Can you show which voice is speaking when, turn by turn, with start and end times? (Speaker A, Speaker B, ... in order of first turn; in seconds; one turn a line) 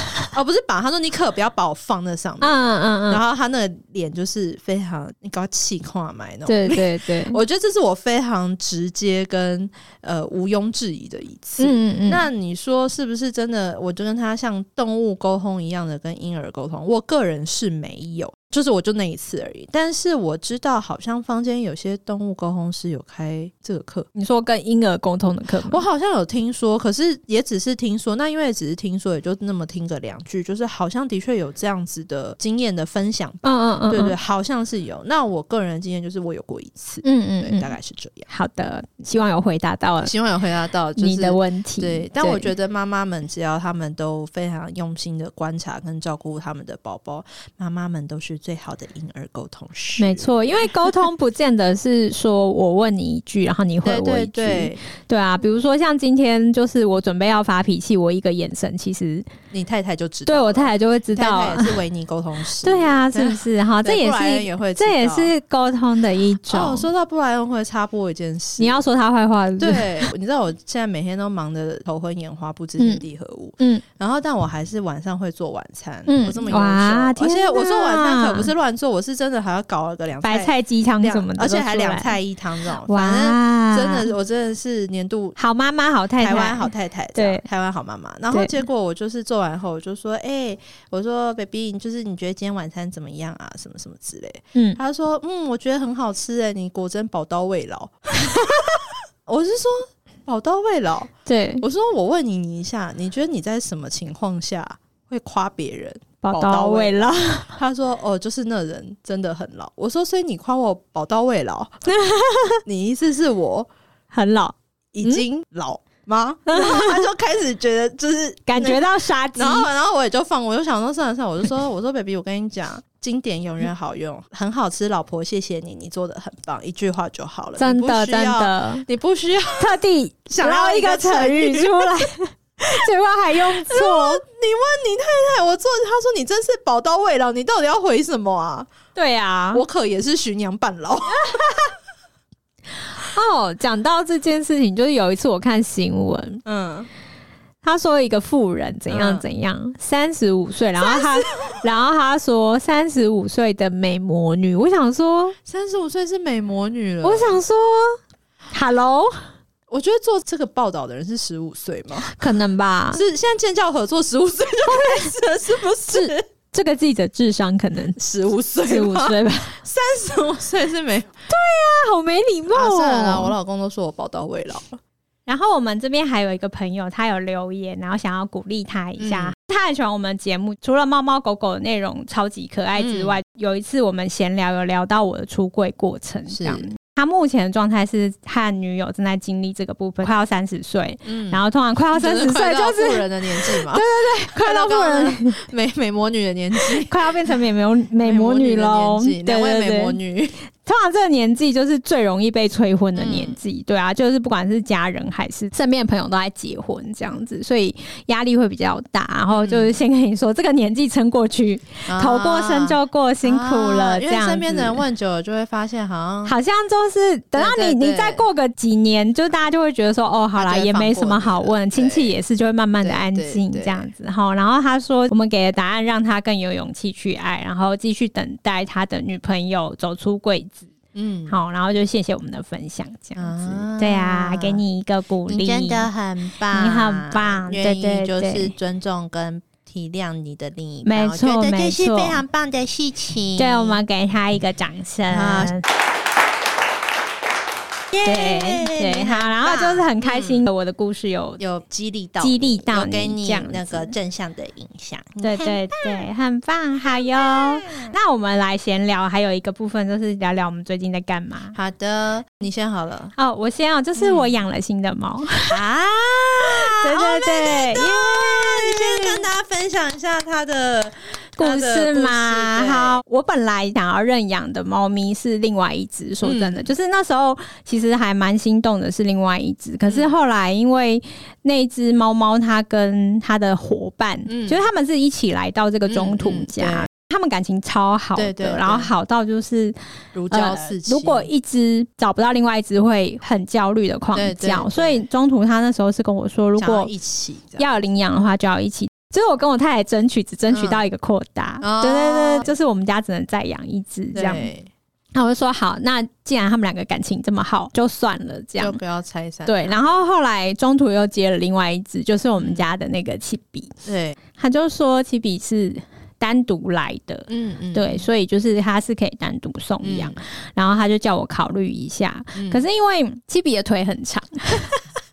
Speaker A: 0.3-24.1
Speaker B: 2.4-3.2
Speaker B: 6.5-7.4
Speaker B: 11.6-12.2
Speaker B: 24.1-25.8
Speaker A: 25.7-38.3
Speaker B: 33.4-34.2
Speaker B: 37.0-37.7
Speaker B: 38.3-40.1
Speaker A: 40.0-50.9
Speaker B: 41.0-42.5
Speaker B: 50.0-59.3
Speaker A: 53.8-54.8
Speaker A: 59.5-65.3
Speaker B: 60.3-61.8
Speaker B: 62.6-66.9
Speaker A: 66.5-68.8
Speaker B: 68.6-70.1
Speaker A: 69.6-85.4
Speaker B: 73.6-73.8
Speaker B: 76.1-78.5
Speaker B: 80.2-82.2
Speaker B: 82.8-84.1
Speaker B: 85.4-87.5
Speaker A: 86.2-111.8
Speaker B: 98.2-98.8
Speaker B: 101.3-101.6
Speaker B: 106.2-107.6
Speaker B: 111.9-112.6
Speaker A: 112.7-113.7
Speaker B: 114.1-115.2
Speaker A: 114.9-129.8
Speaker B: 116.5-117.1
Speaker B: 118.5-119.7
Speaker B: 127.6-128.9
Speaker B: 129.6-134.2
Speaker A: 130.3-131.9
Speaker A: 133.4-138.7
Speaker B: 138.9-139.6
Speaker A: 139.5-141.5
Speaker B: 141.2-141.7
Speaker B: 143.0-146.4
Speaker A: 146.4-146.9
Speaker B: 147.6-155.4
Speaker A: 148.9-149.2
Speaker A: 150.8-151.6
Speaker A: 155.5-157.4
Speaker B: 157.0-158.0
Speaker B: 158.5-159.3
Speaker A: 159.7-162.2
Speaker B: 162.0-163.0
Speaker A: 162.9-166.2
Speaker B: 164.6-165.2
Speaker B: 165.9-168.0
Speaker A: 168.0-171.1
Speaker B: 168.6-169.6
Speaker B: 171.3-173.3
Speaker A: 172.5-174.8
Speaker B: 175.3-195.4
Speaker A: 179.0-179.3
Speaker A: 182.8-183.2
Speaker A: 186.3-186.7
Speaker A: 191.1-191.4
Speaker A: 191.9-197.3
Speaker B: 196.6-200.0
Speaker A: 198.0-200.4
Speaker B: 200.6-214.8
Speaker A: 203.0-203.4
Speaker A: 209.3-209.7
Speaker A: 211.9-216.4
Speaker B: 216.2-230.7
Speaker A: 217.4-218.2
Speaker A: 220.4-222.2
Speaker A: 222.8-223.9
Speaker A: 230.9-231.4
Speaker B: 231.3-235.9
Speaker A: 233.2-234.6
Speaker A: 235.3-243.8
Speaker B: 236.5-238.5
Speaker B: 240.8-242.2
Speaker B: 243.4-245.7
Speaker A: 245.1-245.5
Speaker A: 247.9-250.5
Speaker B: 248.0-251.4
Speaker A: 251.4-256.1
Speaker B: 252.2-253.9
Speaker B: 255.2-261.6
Speaker A: 256.9-257.9
Speaker A: 261.6-263.1
Speaker B: 263.2-265.6
Speaker A: 264.0-264.4
Speaker A: 265.5-273.0
Speaker B: 266.4-269.3
Speaker B: 271.4-289.8
Speaker A: 276.2-276.7
Speaker A: 279.9-280.1
Speaker A: 284.3-284.6
Speaker A: 285.9-286.9
Speaker A: 288.2-288.9
Speaker A: 290.1-291.3
Speaker B: 290.3-296.9
Speaker A: 294.1-295.1
Speaker A: 296.6-297.7
Speaker B: 297.6-304.5
Speaker A: 300.5-300.8
Speaker A: 301.6-302.5
Speaker A: 304.1-304.7
Speaker B: 305.1-308.8
Speaker A: 308.6-309.8
Speaker B: 309.5-313.7
Speaker A: 312.4-312.7
Speaker A: 313.9-314.2
Speaker B: 314.3-324.7
Speaker A: 317.3-318.1
Speaker A: 319.8-320.2
Speaker A: 322.3-322.6